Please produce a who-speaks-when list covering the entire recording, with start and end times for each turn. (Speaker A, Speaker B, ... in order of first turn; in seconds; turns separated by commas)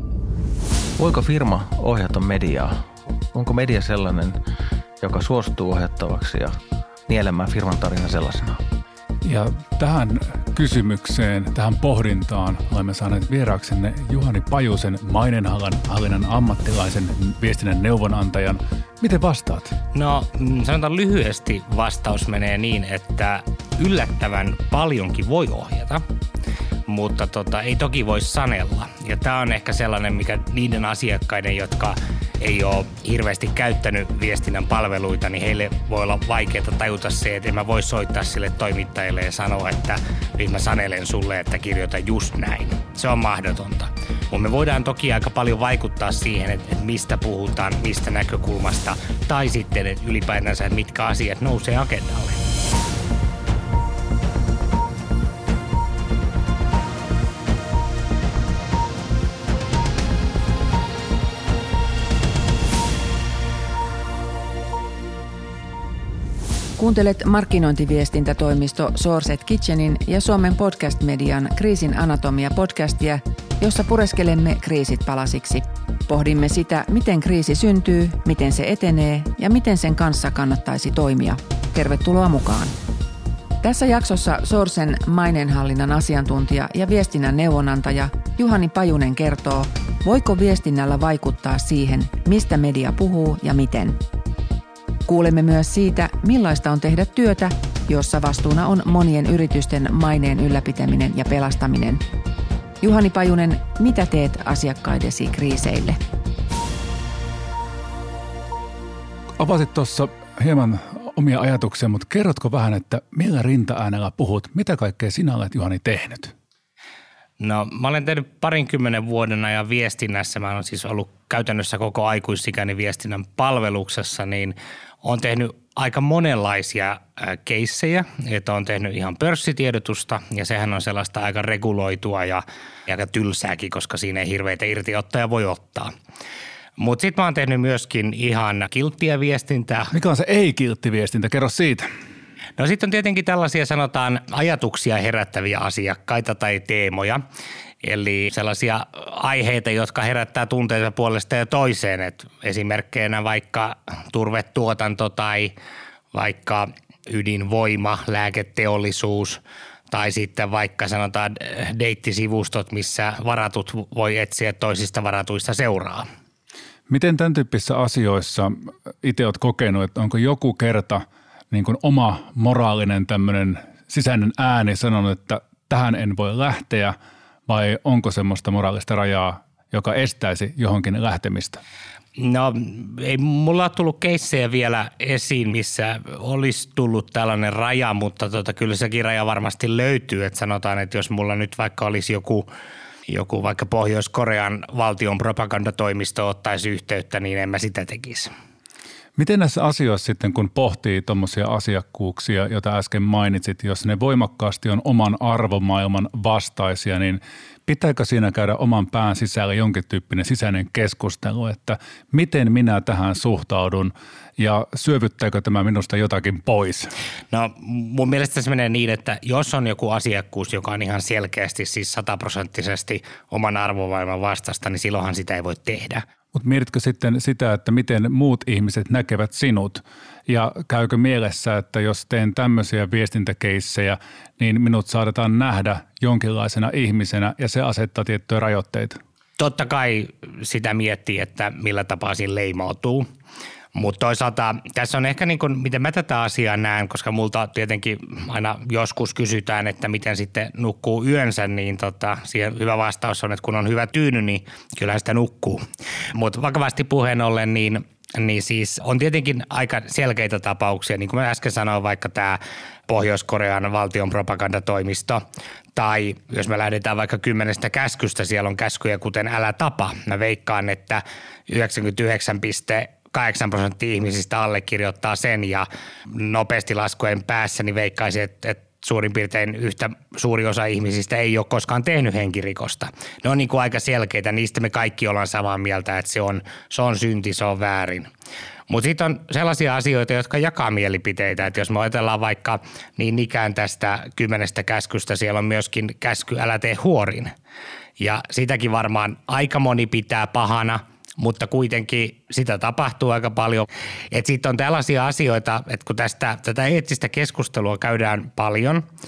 Speaker A: 1.0-2.8, Speaker A: 3.3-4.4, Speaker A: 5.0-6.5, Speaker A: 7.1-8.6, Speaker B: 9.2-19.7, Speaker C: 19.9-26.0, Speaker C: 26.9-52.4, Speaker D: 66.8-82.7, Speaker D: 83.6-94.0, Speaker D: 95.1-102.0, Speaker D: 102.8-106.0, Speaker B: 109.4-116.3, Speaker C: 117.4-135.9, Speaker C: 136.8-139.9, Speaker B: 139.9-141.9, Speaker C: 142.6-147.2, Speaker C: 147.8-155.5, Speaker C: 156.1-159.4, Speaker C: 159.9-166.1, Speaker B: 166.9-176.9, Speaker B: 177.5-181.6, Speaker C: 182.2-192.5, Speaker C: 193.1-198.3, Speaker B: 199.2-216.9, Speaker C: 217.3-226.0, Speaker B: 226.3-239.0, Speaker C: 239.4-243.1, Speaker C: 243.8-255.6, Speaker C: 256.1-265.2, Speaker C: 265.8-288.1, Speaker C: 288.7-297.3, Speaker C: 298.0-308.9